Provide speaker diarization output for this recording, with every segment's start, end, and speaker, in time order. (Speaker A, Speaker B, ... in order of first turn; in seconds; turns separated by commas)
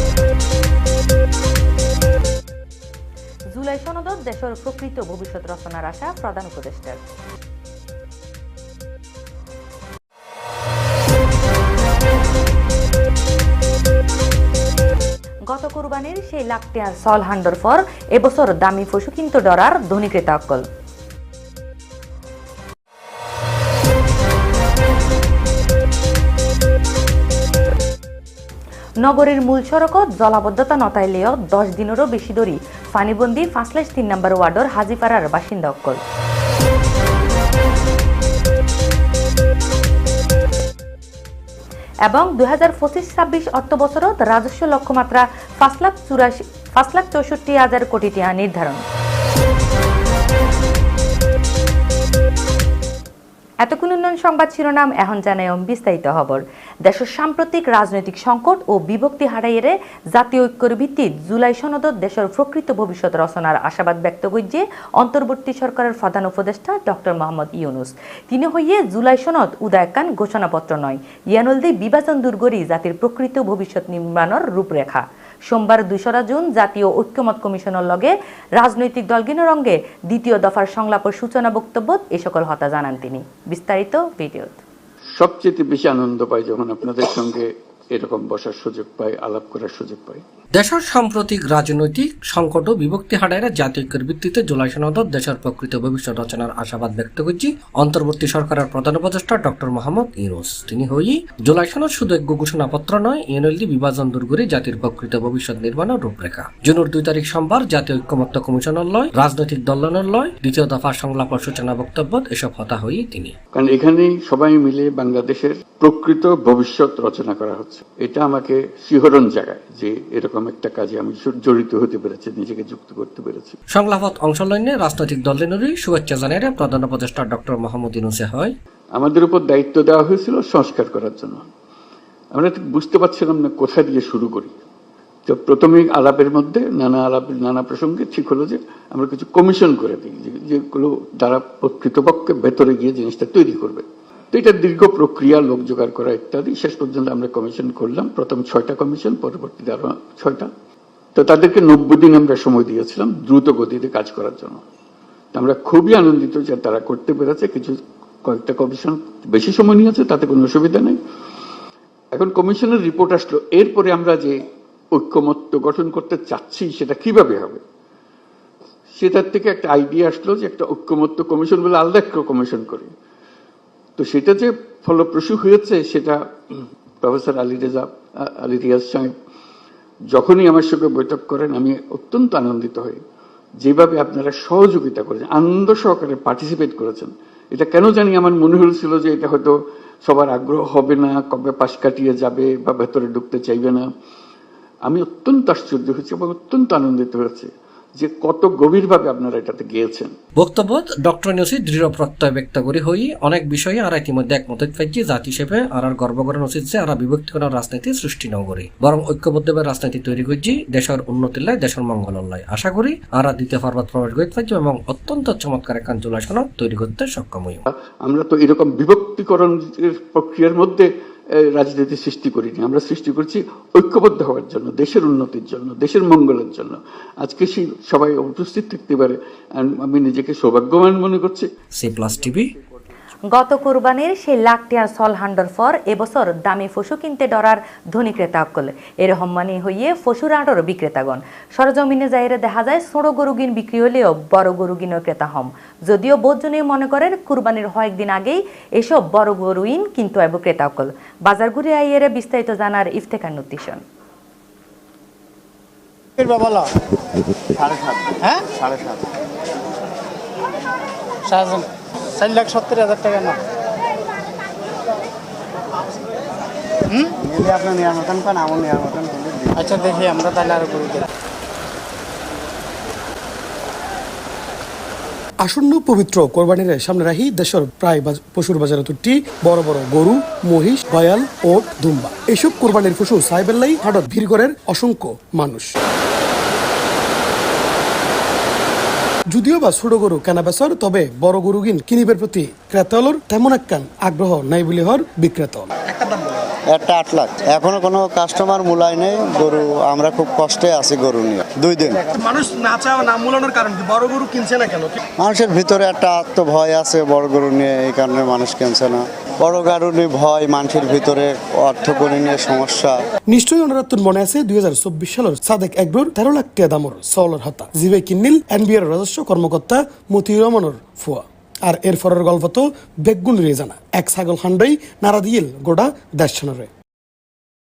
Speaker A: 3.5-7.0, Speaker A: 15.5-20.6, Speaker A: 29.0-36.0, Speaker A: 42.1-48.8, Speaker A: 53.6-84.6, Speaker B: 85.2-90.2, Speaker C: 90.6-113.3, Speaker B: 113.5-123.5, Speaker C: 123.7-128.6, Speaker B: 129.0-131.4, Speaker B: 132.3-134.5, Speaker B: 135.3-150.5, Speaker B: 151.2-154.6, Speaker B: 155.3-161.0, Speaker B: 162.1-164.4, Speaker B: 164.9-167.6, Speaker B: 169.0-172.9, Speaker B: 174.0-179.1, Speaker B: 180.1-183.0, Speaker B: 183.6-189.5, Speaker B: 190.1-193.9, Speaker B: 194.9-200.1, Speaker C: 200.4-217.6, Speaker B: 218.0-220.9, Speaker B: 221.5-231.5, Speaker C: 231.8-232.5, Speaker A: 233.3-253.8, Speaker D: 256.2-256.7, Speaker D: 258.2-258.5, Speaker D: 261.3-263.4, Speaker E: 267.3-269.4, Speaker D: 269.6-271.1, Speaker F: 275.4-285.7, Speaker F: 289.3-295.7, Speaker E: 296.7-302.0, Speaker E: 305.2-312.9, Speaker F: 313.3-326.7